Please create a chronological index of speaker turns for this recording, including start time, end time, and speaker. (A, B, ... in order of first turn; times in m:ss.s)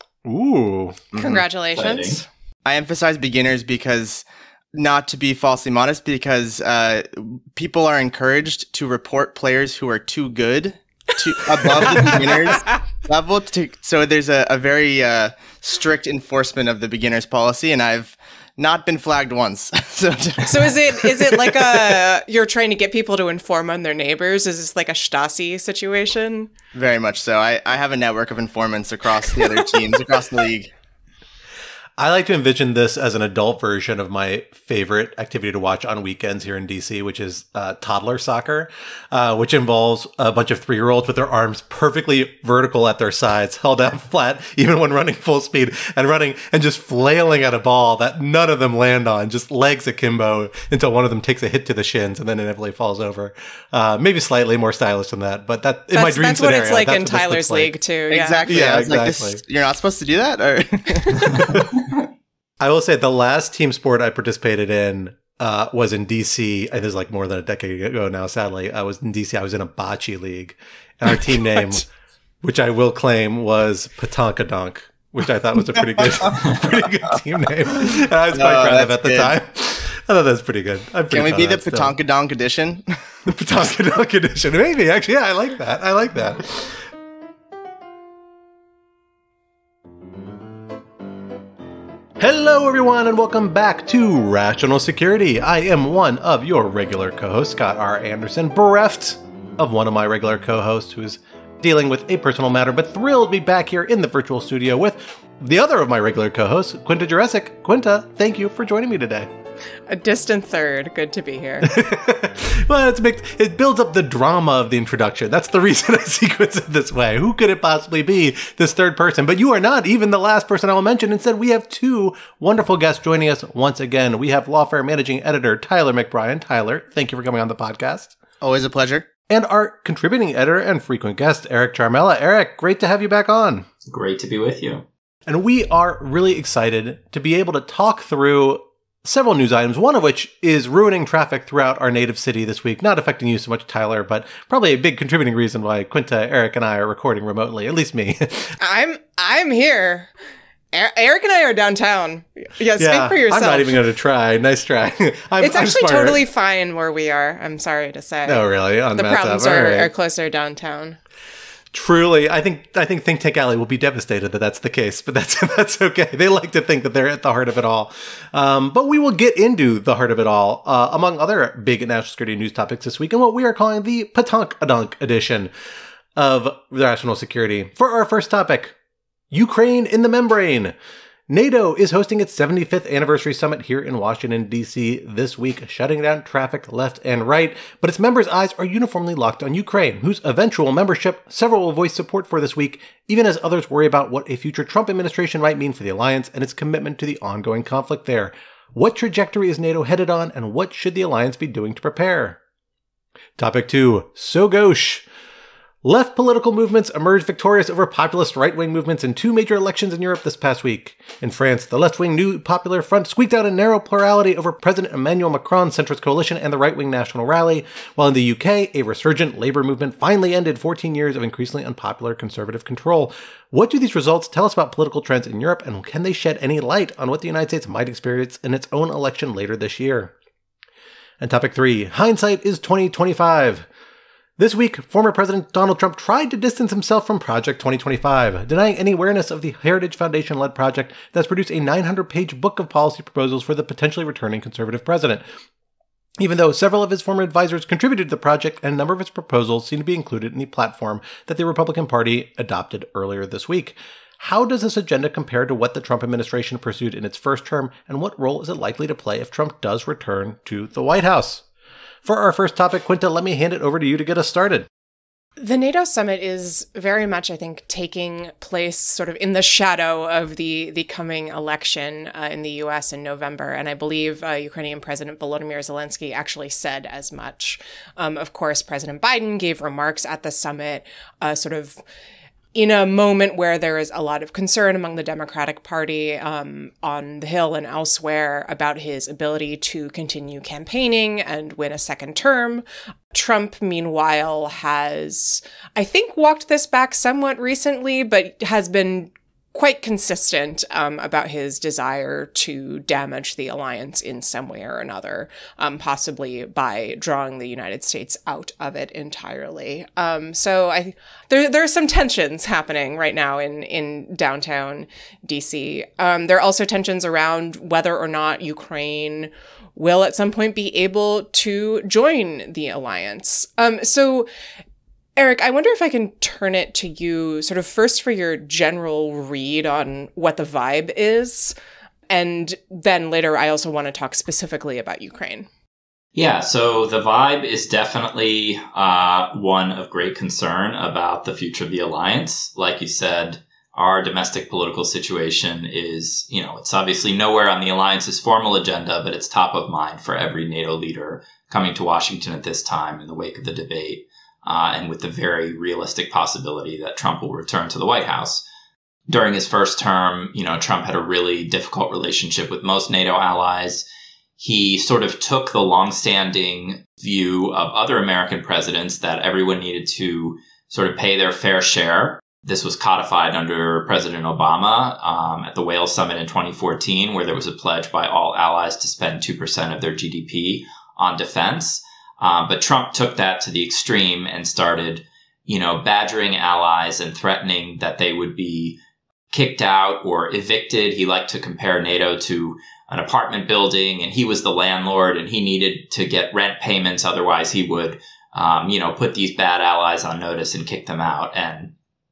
0:00.2-0:01.1 A
0:01.1-0:01.4 B
0:01.2-0:02.3 C
0:01.8-0:02.2 D
0:02.6-0:21.5 B
0:11.9-0:12.7 C
0:20.5-0:26.5 C
0:26.7-0:30.7 B
0:32.0-0:57.7 A
0:55.9-0:58.7 C
0:58.1-1:01.6 B
0:58.5-0:59.4 A
1:02.6-1:11.9 A
1:12.4-1:22.0 A
1:18.3-1:19.3 B
1:21.1-1:22.8 B
1:23.3-1:26.8 A
1:32.2-1:49.3 A
1:49.9-1:51.7 C
1:51.6-2:08.2 A
2:08.4-2:09.1 B
2:09.3-2:13.7 A
2:13.9-2:14.8 D
2:15.3-2:28.6 A
2:28.6-2:30.1 C
2:30.7-2:33.8 C
2:32.8-2:36.2 A
2:35.4-2:41.0 C
2:38.3-2:39.9 A
2:41.7-2:55.5 A
2:56.2-2:58.8 A
2:59.3-3:00.7 A
3:01.3-3:22.4 A
3:23.4-3:25.0 A
3:25.8-3:50.1 A
3:51.2-3:53.7 A
3:54.4-4:05.2 A
4:06.2-4:21.4 A
4:22.0-4:24.7 A
4:25.4-4:41.8 C
4:42.5-5:24.3 C
5:25.2-5:31.5 C
5:32.1-5:35.5 C
5:36.2-5:58.4 D
5:59.1-6:03.8 D
6:04.4-6:28.8 D
6:29.3-6:41.7 D